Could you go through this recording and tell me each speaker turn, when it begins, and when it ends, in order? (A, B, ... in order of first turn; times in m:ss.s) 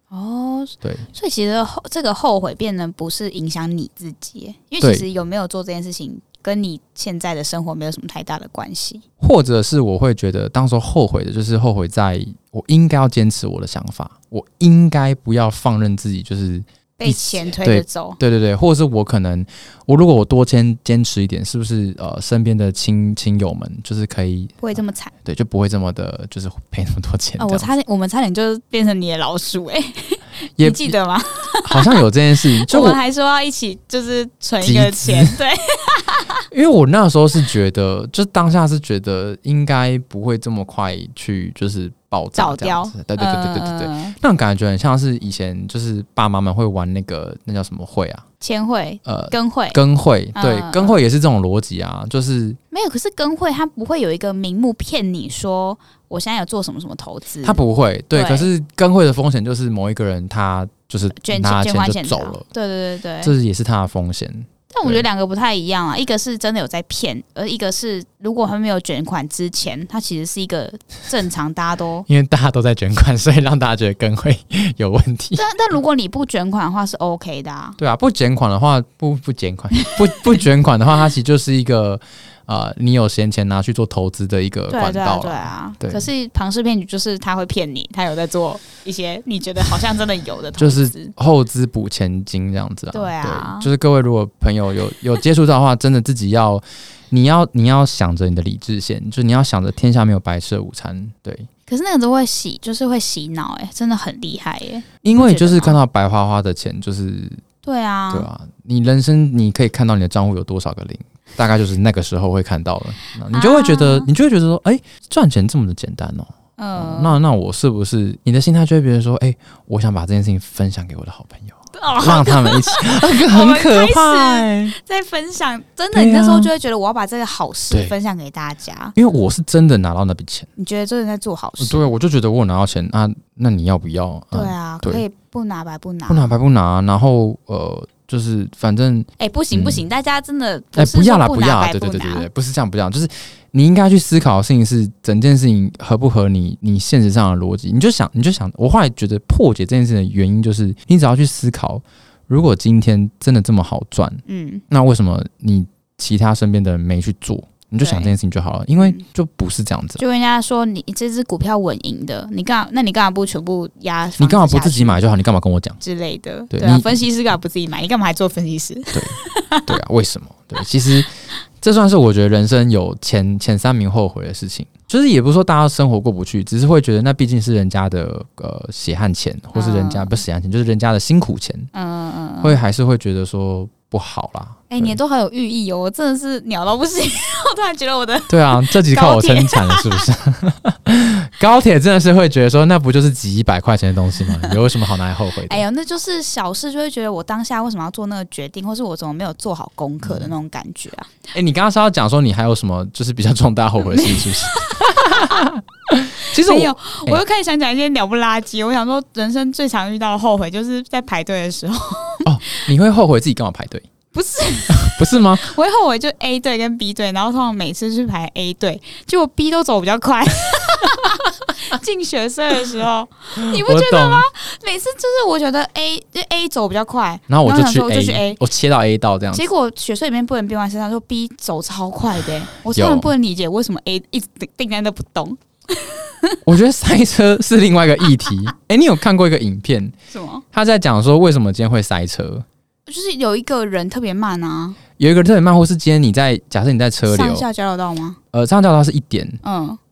0:00.1-0:09.0 A
0:09.2-0:24.6 B
0:17.0-0:18.2 A
0:24.6-0:25.1 A
0:25.2-0:27.7 B
0:27.4-0:36.4 A
0:30.6-0:31.0 B
0:31.6-0:33.0 B
0:34.6-0:35.4 B
0:36.5-0:48.2 B
0:42.4-0:44.2 A
0:48.4-0:49.8 A
0:49.0-0:52.6 B
0:50.4-0:51.0 A
0:52.7-0:57.6 A
0:57.4-1:02.4 B
0:58.1-0:58.5 A
1:01.2-1:03.3 A
1:03.2-1:05.0 B
1:04.7-1:12.1 A
1:12.1-1:15.4 B
1:15.4-1:17.8 A
1:17.8-1:26.1 B
1:24.7-1:31.1 A
1:30.6-1:41.5 B
1:32.9-1:33.7 A
1:41.7-1:45.8 A
1:45.0-1:47.4 B
1:47.6-1:48.3 A
1:48.1-2:04.8 B
1:53.3-1:54.1 A
1:56.6-1:57.2 A
2:01.7-2:09.0 A
2:05.9-2:06.5 B
2:09.0-2:10.5 B
2:10.6-2:11.8 A
2:11.6-2:15.0 B
2:14.3-2:16.3 A
2:16.1-2:19.8 B
2:19.2-2:22.3 A
2:20.8-2:40.0 B
2:34.3-2:34.6 A
2:37.8-2:38.1 A
2:38.8-2:39.0 A
2:40.0-2:45.0 A
2:44.2-2:45.8 B
2:45.8-2:49.8 A
2:46.5-2:46.9 B
2:48.9-2:51.1 B
2:51.6-3:01.7 B
2:59.5-3:00.2 A
3:01.7-3:02.6 A
3:02.4-3:05.0 B
3:04.7-3:10.1 A
3:08.3-3:15.6 B
3:15.5-3:21.1 A
3:20.0-3:20.3 B
3:21.3-3:27.2 B
3:23.8-3:25.5 A
3:26.4-3:32.7 A
3:32.3-3:33.9 B
3:34.1-3:48.4 A
3:34.7-3:35.5 B
3:43.4-3:44.3 B
3:47.3-3:49.4 B
3:49.3-3:56.4 A
3:52.7-3:53.1 B
3:56.4-3:59.9 B
4:00.1-4:00.4 A
4:00.5-4:02.4 B
4:02.9-4:04.8 A
4:05.0-4:07.5 B
4:07.1-4:08.2 A
4:08.3-4:09.4 B
4:09.4-4:09.8 A